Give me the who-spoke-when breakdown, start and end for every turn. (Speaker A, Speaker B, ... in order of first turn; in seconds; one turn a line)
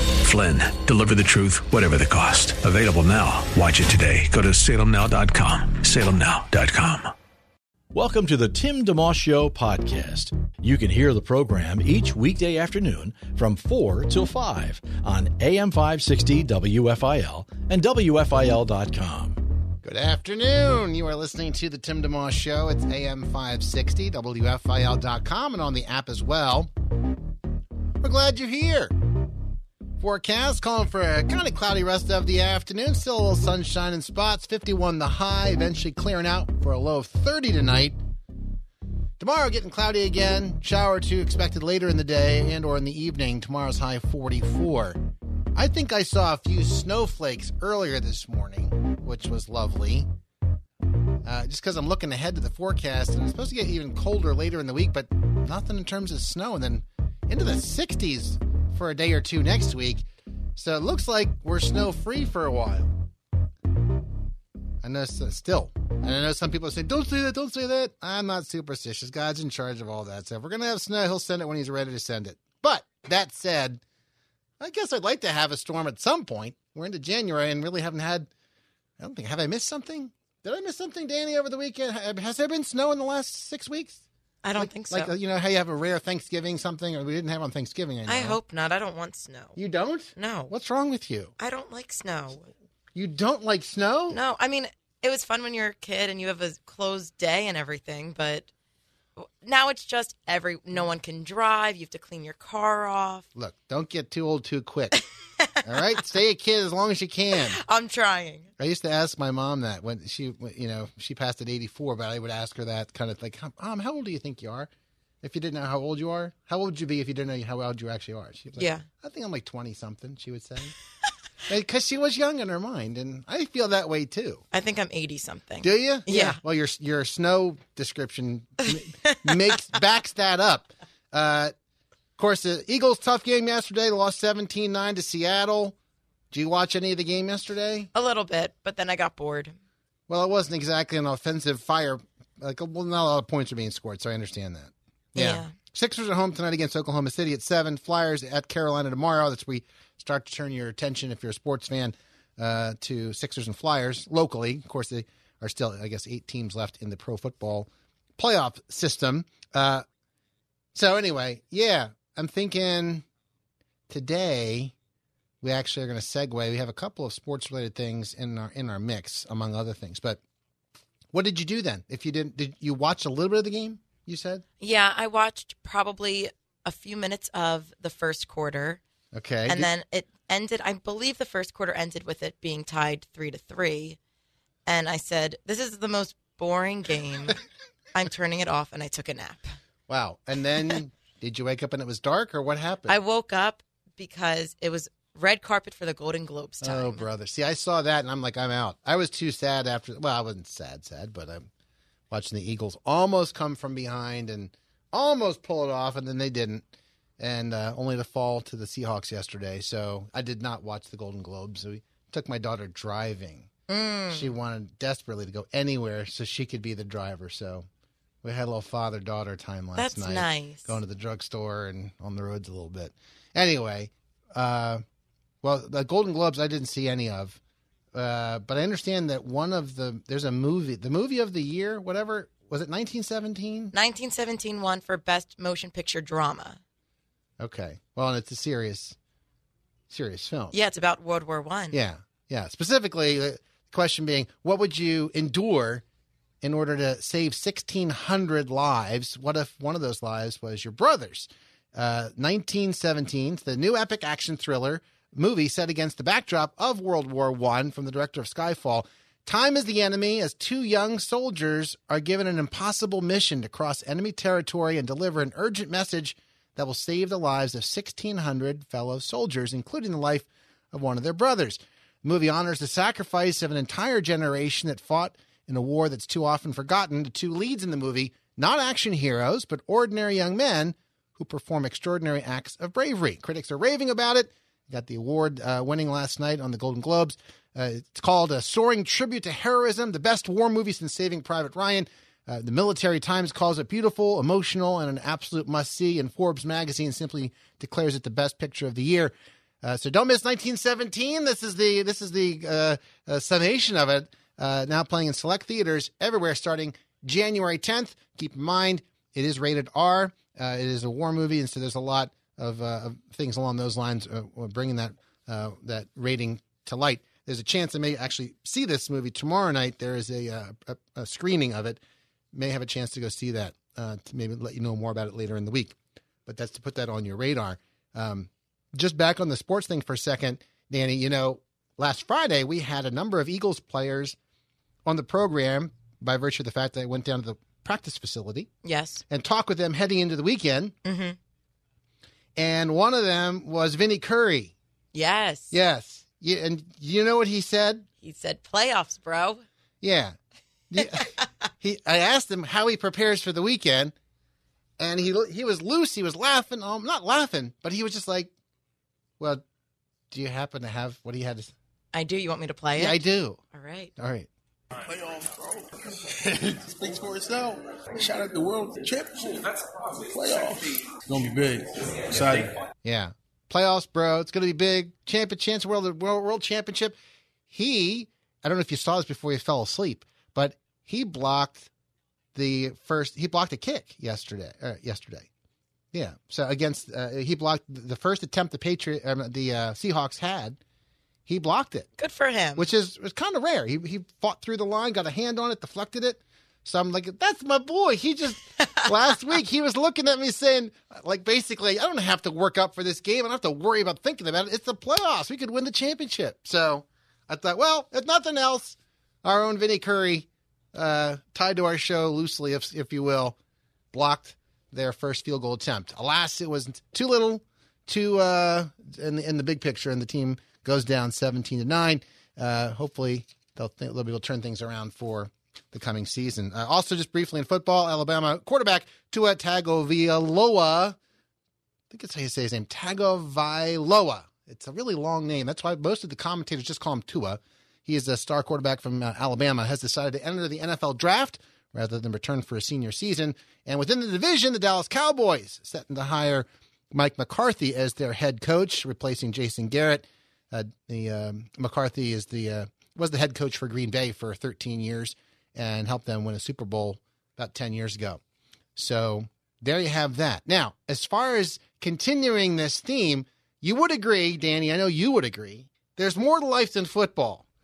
Speaker A: 0.1-7.1
Speaker B: 7.9-19.4
Speaker C: 19.8-26.7
Speaker C: 28.0-28.9
Speaker C: 30.0-38.0
Speaker C: 39.2-45.0
Speaker C: 45.5-50.1
Speaker C: 51.2-62.9
Speaker C: 64.8-73.8
Speaker C: 74.6-78.3
Speaker C: 79.0-84.0
Speaker D: 84.4-85.1
Speaker C: 84.6-88.4
Speaker D: 88.1-89.6
Speaker C: 89.5-91.3
Speaker D: 90.2-90.5
Speaker D: 91.4-92.5
Speaker C: 92.9-94.2
Speaker D: 94.1-98.5
Speaker D: 99.2-103.2
Speaker C: 103.3-105.0
Speaker C: 105.6-107.6
Speaker D: 107.4-108.5
Speaker C: 108.6-114.7
Speaker C: 115.2-120.7
Speaker D: 118.6-118.8
Speaker C: 121.5-124.4
Speaker D: 124.5-126.4
Speaker C: 125.6-131.5
Speaker C: 132.2-135.7
Speaker C: 136.3-137.9
Speaker D: 137.9-139.6
Speaker C: 140.1-159.8
Speaker D: 145.2-145.5
Speaker C: 160.7-163.0
Speaker C: 163.9-164.7
Speaker C: 165.4-170.2
Speaker C: 171.1-174.4
Speaker D: 174.6-178.8
Speaker C: 179.1-179.7
Speaker D: 179.5-184.0
Speaker D: 184.7-187.4
Speaker D: 187.9-189.5
Speaker C: 189.9-193.0
Speaker D: 192.9-197.0
Speaker C: 196.6-201.5
Speaker C: 202.1-206.6
Speaker C: 207.2-213.5
Speaker D: 213.7-214.3
Speaker C: 214.1-217.7
Speaker C: 218.2-224.8
Speaker D: 219.8-220.8
Speaker C: 225.4-227.4
Speaker C: 227.9-233.7
Speaker D: 233.7-236.6
Speaker C: 237.4-239.0
Speaker C: 239.9-240.5
Speaker D: 240.5-241.8
Speaker C: 241.7-245.8
Speaker C: 246.4-321.8
Speaker C: 322.3-334.2
Speaker C: 334.8-338.5
Speaker D: 338.6-339.0
Speaker C: 339.1-340.7
Speaker D: 340.8-341.1
Speaker C: 342.4-344.5
Speaker D: 344.9-345.5
Speaker C: 345.5-347.9
Speaker D: 348.0-349.4
Speaker C: 349.8-350.1
Speaker C: 350.7-353.9
Speaker D: 350.9-351.2
Speaker C: 354.8-358.3
Speaker C: 360.1-361.5
Speaker D: 361.9-363.0
Speaker C: 362.8-363.4
Speaker D: 363.5-363.9
Speaker C: 364.0-364.3
Speaker E: 364.9-372.5
Speaker C: 372.8-377.0
Speaker C: 377.5-381.7
Speaker C: 382.3-385.3
Speaker C: 385.9-390.6
Speaker C: 391.3-391.9
Speaker D: 392.0-392.7
Speaker C: 392.6-413.4
Speaker C: 413.9-431.0
Speaker C: 431.9-458.2
Speaker C: 458.8-467.4